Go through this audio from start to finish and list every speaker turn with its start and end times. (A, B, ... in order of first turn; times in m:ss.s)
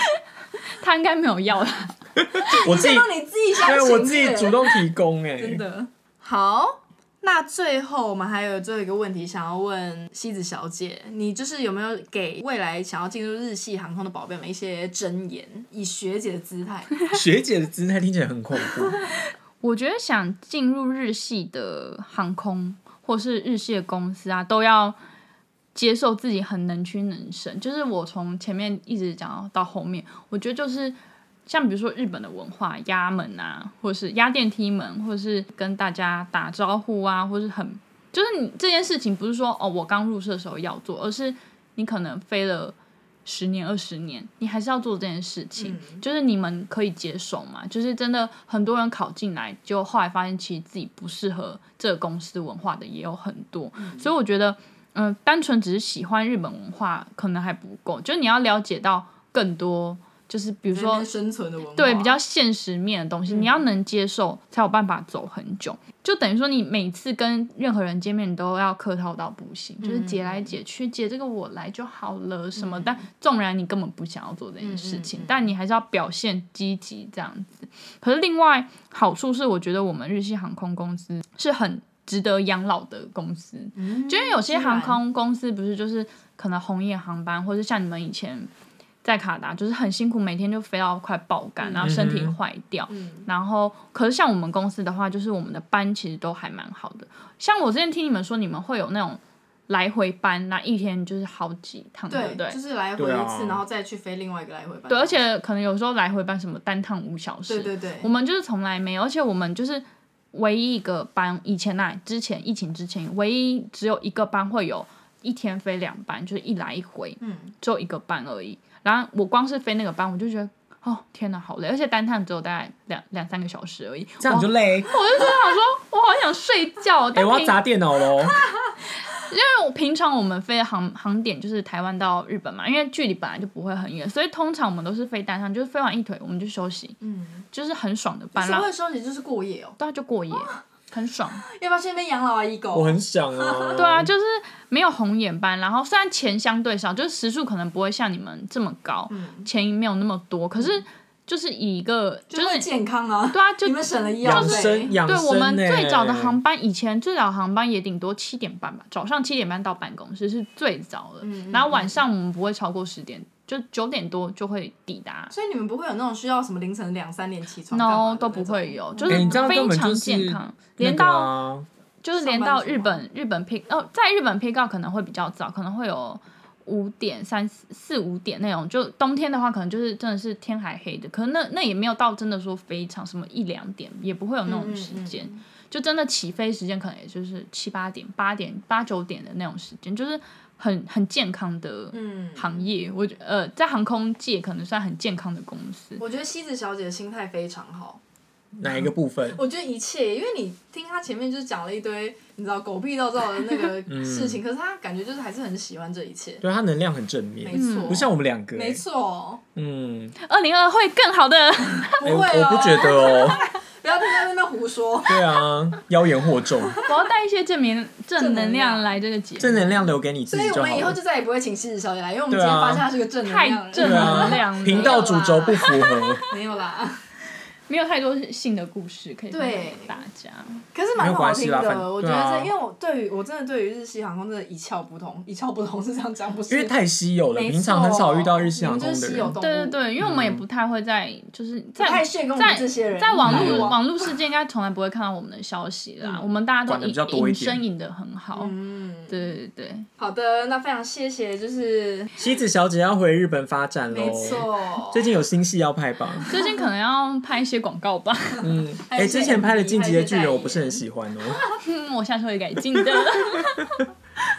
0:00.6-0:02.6 A
0:02.2-0:03.1 B
0:02.4-0:04.9 C
0:03.6-0:05.6 B
0:05.4-0:17.0 C
0:17.1-0:19.0 B
0:19.6-0:25.0 A
0:25.7-0:42.7 A
0:43.2-1:01.1 A
0:45.6-0:46.0 C
0:53.8-0:54.1 C
1:00.6-1:02.2 C
1:01.8-1:28.5 A
1:03.3-1:03.6 C
1:09.8-1:10.6 C
1:12.6-1:13.0 C
1:14.6-1:15.5 C
1:23.8-1:25.0 C
1:29.0-1:42.6 A
1:31.6-1:31.9 C
1:31.8-1:32.4 B
1:32.9-1:33.3 C
1:42.1-1:45.2 C
1:43.0-1:43.6 B
1:44.9-2:07.6 A
1:47.5-1:48.1 C
1:57.2-1:57.5 C
2:04.2-2:04.9 B
2:07.1-2:08.4 B
2:08.9-2:17.0 A
2:17.0-2:17.5 C
2:17.5-2:18.7 A
2:18.4-2:19.8 C
2:19.8-2:21.4 A
2:20.3-2:20.6 C
2:21.4-2:23.8 C
2:22.7-2:24.1 B
2:23.8-2:32.7 A
2:29.1-2:29.5 C
2:30.6-2:30.8 C
2:32.3-2:35.0 C
2:33.3-2:45.3 A
2:34.2-2:36.4 B
2:41.2-2:42.0 C
2:45.3-2:49.4 C
2:47.7-2:51.3 A
2:49.1-2:51.7 B
2:52.0-3:16.0 A
2:52.2-2:53.0 C
3:04.4-3:05.4 C
3:11.9-3:12.7 C
3:16.0-3:18.0 C
3:18.5-3:19.4 B
3:18.7-3:26.4 C
3:23.9-3:24.4 B
3:26.4-3:28.8 B
3:27.4-3:29.4 C
3:27.5-3:28.0 A
3:29.5-3:30.1 B
3:30.2-3:32.2 A
3:31.8-3:35.4 C
3:32.0-3:33.4 B
3:35.0-3:36.8 B
3:36.6-3:36.9 C
3:36.8-3:39.9 A
3:38.2-3:39.0 C
3:39.4-3:41.0 B
3:40.3-3:47.0 C
3:42.3-3:42.9 B
3:43.2-3:46.3 A
3:43.8-3:46.2 B
3:47.7-3:50.6 A
3:49.3-3:50.0 C
3:50.7-3:56.8 C
3:51.0-3:52.5 B
3:56.5-3:59.4 B
3:57.3-3:59.8 C
3:59.2-4:08.5 A
4:00.0-4:00.4 B
4:01.8-4:04.1 C
4:03.2-4:03.8 B
4:06.0-4:06.3 C
4:06.6-4:07.6 B
4:08.3-4:09.3 C
4:09.1-4:09.9 A
4:10.0-4:12.2 C
4:12.2-4:16.3 B
4:13.9-4:15.2 C
4:16.3-4:16.6 C
4:16.3-4:18.5 A
4:18.4-4:21.4 B
4:18.8-4:20.8 C
4:21.6-4:23.9 A
4:22.7-4:23.8 B